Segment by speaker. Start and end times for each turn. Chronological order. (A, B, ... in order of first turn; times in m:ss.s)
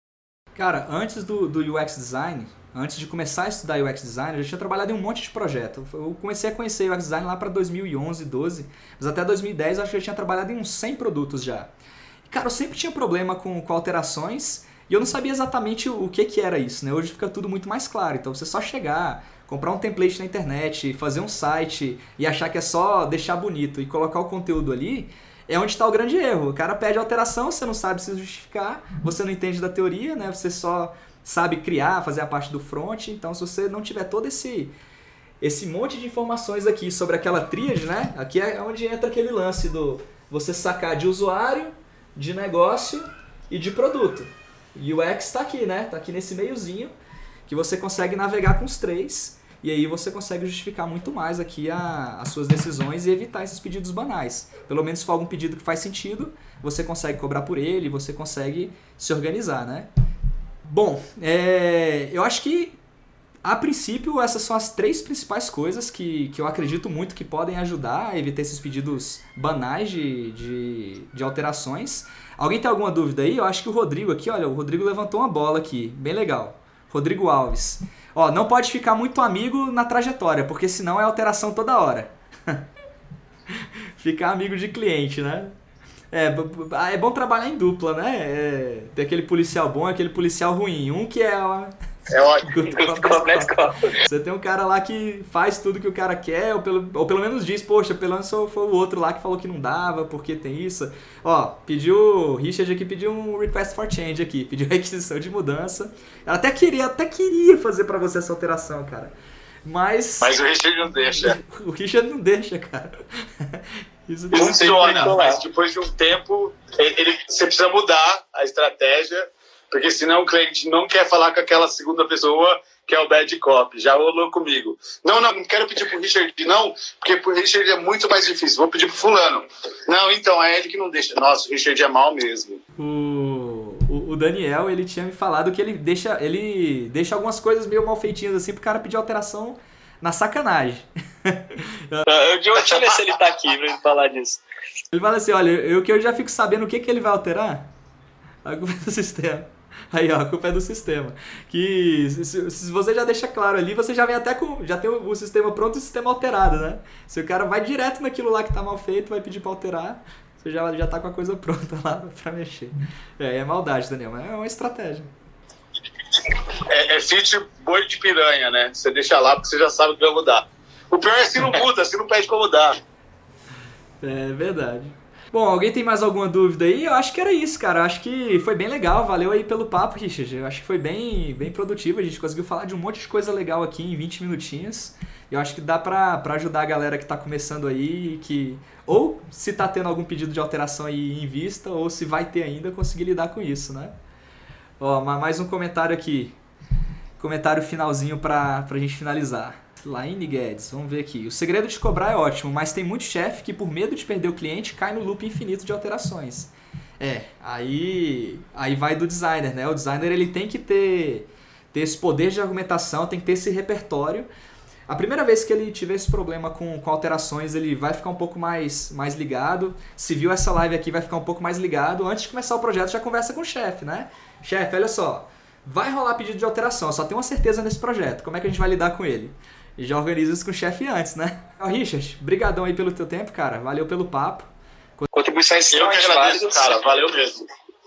0:00.6-0:11.7 A
0:12.3-0:34.7 A
0:35.4-0:46.9 A
0:47.5-0:59.9 A
1:00.6-1:02.8 A
1:03.4-1:22.6 A
1:23.6-1:25.5 A
1:26.1-1:31.7 A
1:32.1-1:32.7 B
1:32.4-1:49.1 A
1:32.7-1:34.0 C
1:49.6-1:50.4 A
1:50.2-1:51.4 B
1:51.0-1:55.2 A
1:54.3-2:12.6 B
1:54.4-1:55.4 C
2:12.8-2:22.0 A
2:22.1-2:24.4 C
2:24.9-2:27.7 A
2:28.4-2:45.1 A
2:46.7-2:52.8 B
2:54.0-3:13.9 A
3:14.8-3:16.4 A
3:17.2-3:34.3 A
3:34.9-3:55.1 A
3:55.1-3:56.6 C
3:55.7-3:57.5 B